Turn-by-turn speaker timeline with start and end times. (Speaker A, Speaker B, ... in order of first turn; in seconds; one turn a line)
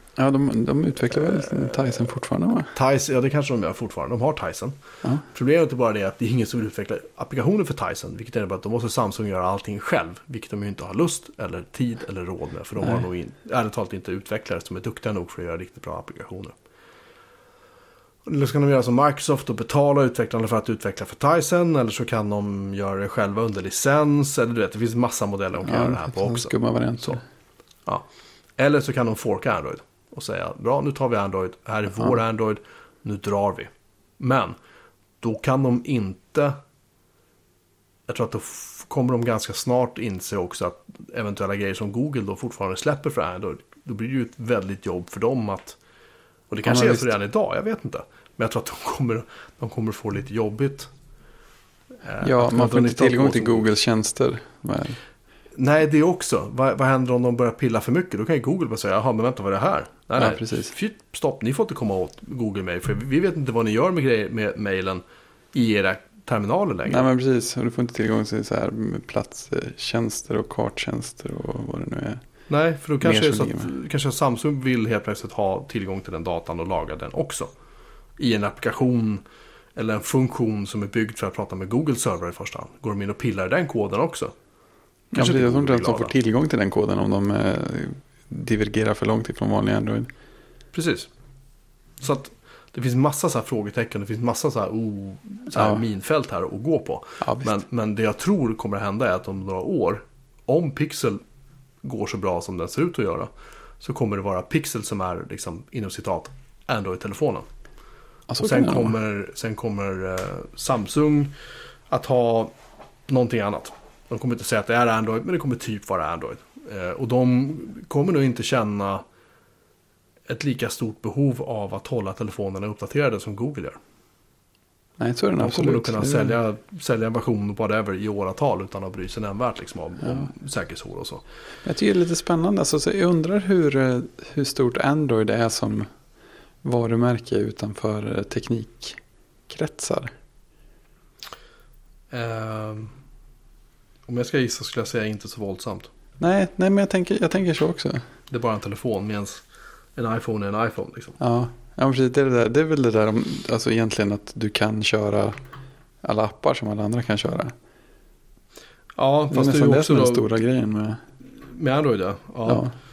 Speaker A: 0.2-2.7
Speaker B: 1.1-2.2
Speaker B: 2.7-16.5
Speaker B: 18.2-27.2
Speaker A: 25.6-27.2
Speaker B: 28.6-34.5
Speaker B: 35.2-36.6
Speaker B: 38.1-45.8
Speaker B: 46.5-50.9
Speaker A: 46.6-47.1
Speaker B: 52.0-53.6
Speaker A: 52.2-55.0
Speaker B: 55.5-67.1
Speaker A: 60.2-60.7
Speaker A: 66.9-72.2
Speaker B: 72.5-77.5
Speaker A: 73.0-73.7
Speaker B: 78.2-79.2
Speaker B: 79.8-84.3
Speaker A: 85.1-90.1
Speaker B: 85.1-86.1
Speaker B: 90.7-91.1
Speaker B: 92.0-101.2
Speaker A: 95.5-95.8
Speaker A: 97.2-97.6
Speaker B: 101.8-107.5
Speaker A: 108.3-108.9
Speaker B: 108.4-111.3
Speaker B: 111.9-112.5
Speaker B: 113.1-119.0
Speaker B: 120.3-123.8
Speaker A: 125.0-126.4
Speaker B: 125.4-131.2
Speaker A: 130.0-130.3
Speaker A: 131.6-135.9
Speaker A: 136.6-140.1
Speaker B: 142.1-142.9
Speaker B: 144.1-145.9
Speaker A: 146.2-148.1
Speaker B: 148.3-149.4
Speaker B: 150.0-151.2
Speaker A: 151.2-155.4
Speaker A: 156.0-157.5
Speaker B: 158.9-160.3
Speaker A: 159.3-161.0
Speaker B: 161.4-162.7
Speaker A: 162.4-162.7